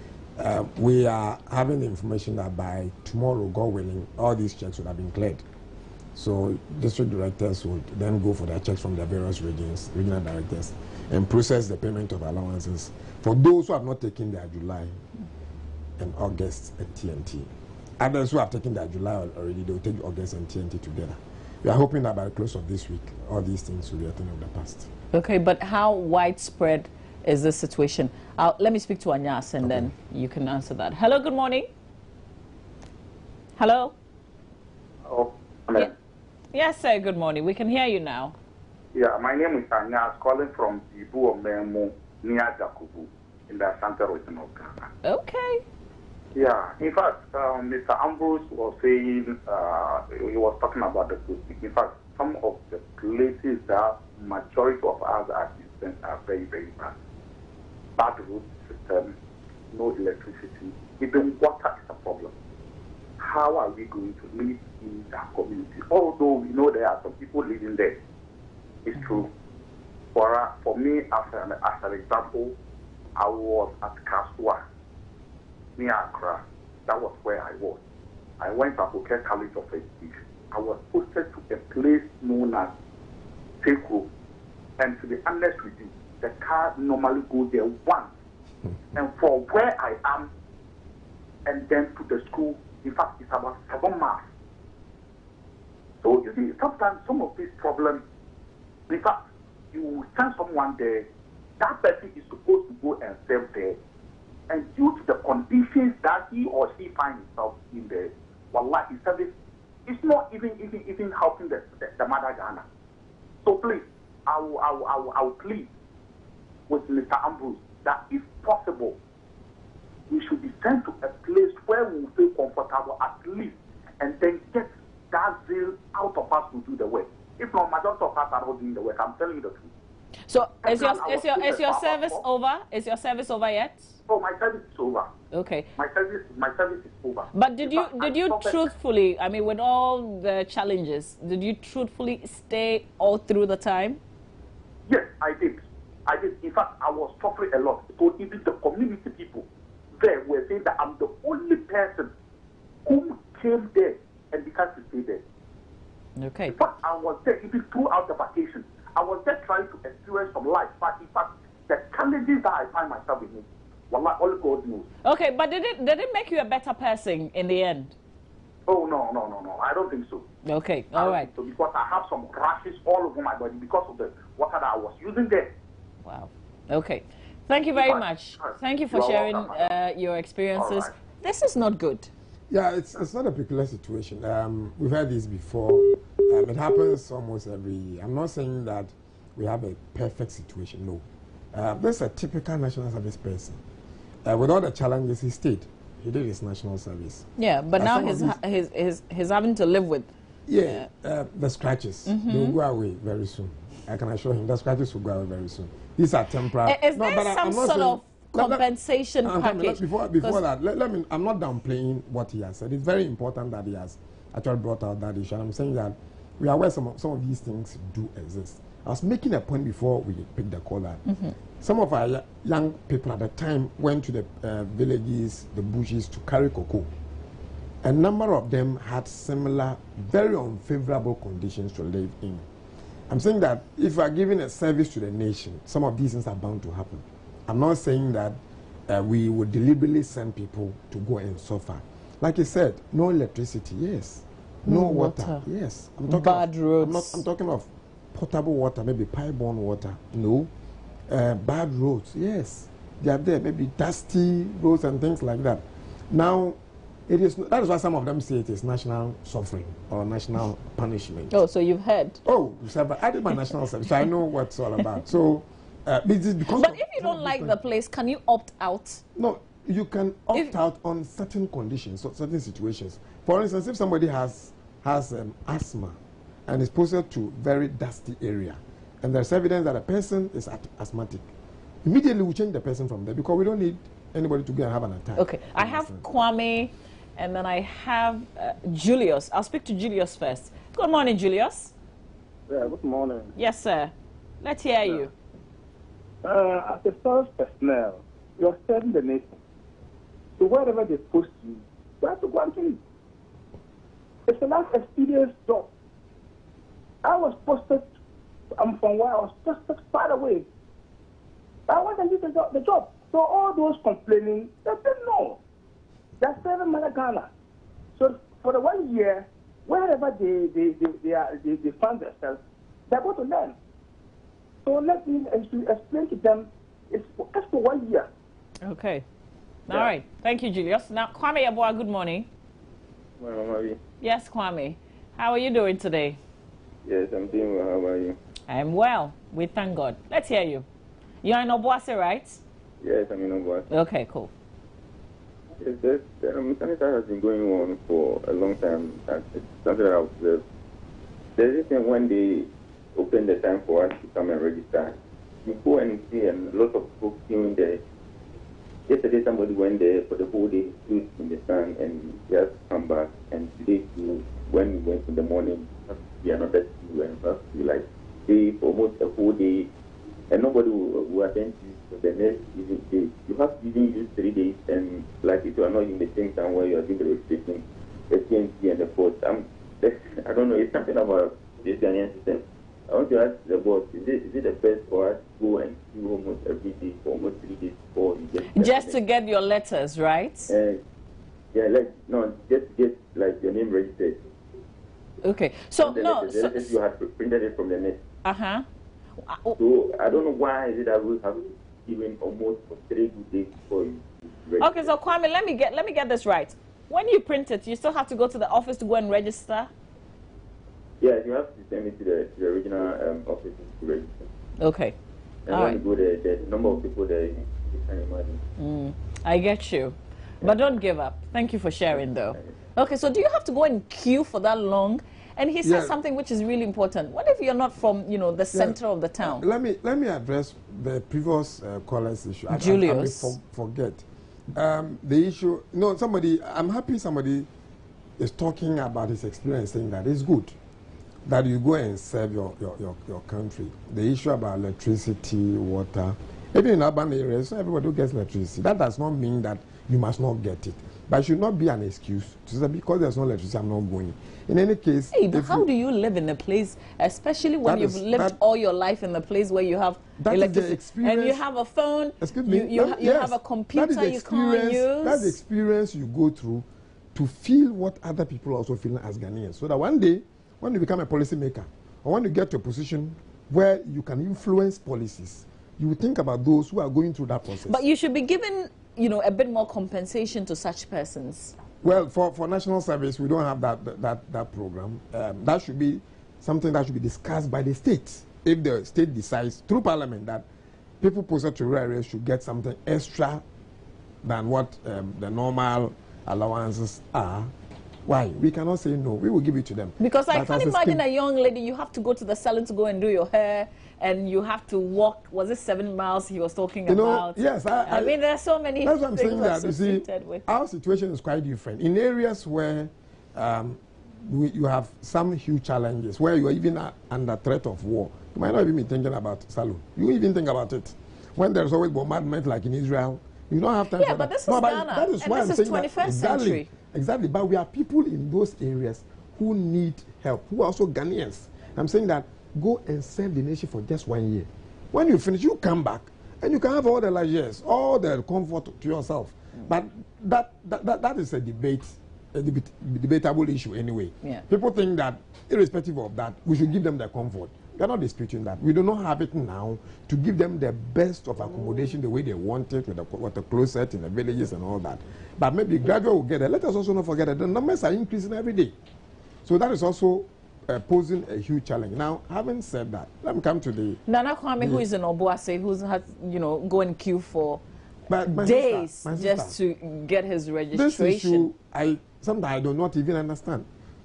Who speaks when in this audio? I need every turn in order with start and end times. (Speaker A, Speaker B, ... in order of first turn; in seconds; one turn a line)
Speaker A: 0.4-5.4
Speaker A: 6.1-15.0
Speaker A: 16.0-24.9
Speaker B: 25.1-31.7
Speaker A: 29.6-29.9
Speaker B: 33.6-33.9
Speaker C: 35.1-35.9
Speaker B: 36.5-38.3
Speaker C: 38.9-44.9
Speaker B: 45.0-45.6
Speaker C: 46.3-56.9
Speaker C: 58.0-59.1
Speaker C: 59.7-62.3
Speaker C: 63.2-67.9
Speaker C: 68.8-69.3
Speaker C: 70.1-72.5
Speaker C: 73.2-74.6
Speaker C: 75.8-77.8
Speaker C: 78.4-82.7
Speaker C: 83.6-84.1
Speaker C: 84.8-88.1
Speaker C: 88.9-90.3
Speaker C: 91.5-94.2
Speaker C: 96.0-98.0
Speaker C: 98.9-99.2
Speaker C: 99.7-101.1
Speaker C: 101.6-103.8
Speaker C: 104.5-109.3
Speaker C: 109.8-112.6
Speaker C: 113.4-115.7
Speaker C: 116.7-119.0
Speaker C: 120.1-129.7
Speaker B: 130.3-133.9
Speaker C: 130.6-132.2
Speaker C: 134.1-135.1
Speaker B: 135.3-135.7
Speaker C: 135.8-138.6
Speaker B: 137.3-144.0
Speaker C: 144.9-149.4
Speaker C: 149.9-152.1
Speaker C: 152.8-155.2
Speaker B: 156.2-156.5
Speaker C: 156.5-164.8
Speaker B: 165.0-167.9
Speaker C: 168.7-170.3
Speaker B: 170.4-171.3
Speaker C: 170.9-175.5
Speaker B: 176.0-182.1
Speaker C: 177.7-179.8
Speaker C: 180.6-180.9
Speaker A: 182.5-193.6
Speaker A: 194.2-198.4
Speaker B: 197.4-200.1
Speaker A: 200.5-208.7
Speaker B: 202.1-202.6
Speaker B: 206.6-210.4
Speaker A: 209.2-221.0
Speaker B: 221.1-221.3
Speaker A: 221.6-226.9
Speaker A: 227.8-232.4
Speaker A: 233.1-250.5
Speaker B: 244.7-245.4
Speaker B: 246.1-247.2
Speaker A: 251.1-261.3
Speaker B: 261.3-262.2
Speaker A: 262.2-267.6
Speaker B: 266.5-269.0
Speaker A: 269.1-281.2
Speaker A: 281.8-286.0
Speaker B: 285.2-291.7
Speaker D: 292.5-293.3
Speaker B: 293.4-295.1
Speaker D: 296.2-299.4
Speaker D: 300.4-302.8
Speaker D: 304.2-305.7
Speaker D: 307.0-307.9
Speaker D: 308.6-310.5
Speaker D: 311.7-315.4
Speaker D: 316.2-317.3
Speaker D: 317.9-323.6
Speaker D: 324.6-328.1
Speaker B: 328.6-329.0
Speaker B: 329.7-332.3
Speaker E: 333.2-333.8
Speaker B: 334.0-336.2
Speaker E: 336.8-338.2
Speaker B: 338.5-340.6
Speaker B: 341.2-342.4
Speaker E: 342.8-343.6
Speaker B: 343.7-344.3
Speaker E: 345.6-350.4
Speaker E: 351.4-357.8
Speaker E: 358.9-369.7
Speaker E: 370.3-388.9
Speaker B: 388.5-390.5
Speaker E: 390.5-390.8
Speaker E: 391.5-394.2
Speaker B: 395.2-396.8
Speaker E: 395.8-398.0
Speaker B: 398.2-398.6
Speaker B: 399.3-399.6
Speaker E: 399.6-404.9
Speaker B: 404.6-409.7
Speaker E: 411.0-414.2
Speaker B: 414.6-414.9
Speaker E: 415.5-418.4
Speaker B: 415.5-415.8
Speaker B: 418.6-429.4
Speaker A: 425.6-425.9
Speaker A: 428.5-434.0
Speaker B: 432.5-433.3
Speaker A: 434.5-437.5
Speaker A: 438.2-440.5
Speaker A: 441.2-455.7
Speaker B: 455.1-465.4
Speaker A: 457.6-458.4
Speaker A: 460.2-461.4
Speaker A: 462.2-477.8
Speaker B: 477.7-481.5
Speaker A: 481.8-490.4
Speaker A: 491.0-493.4
Speaker A: 494.2-497.5
Speaker A: 498.0-501.0
Speaker B: 500.0-510.4
Speaker A: 506.9-508.1
Speaker A: 508.8-558.7
Speaker B: 523.9-526.7
Speaker A: 559.4-564.0
Speaker B: 564.1-567.6
Speaker A: 564.6-564.8
Speaker A: 568.1-569.5
Speaker B: 568.3-571.5
Speaker A: 570.7-573.7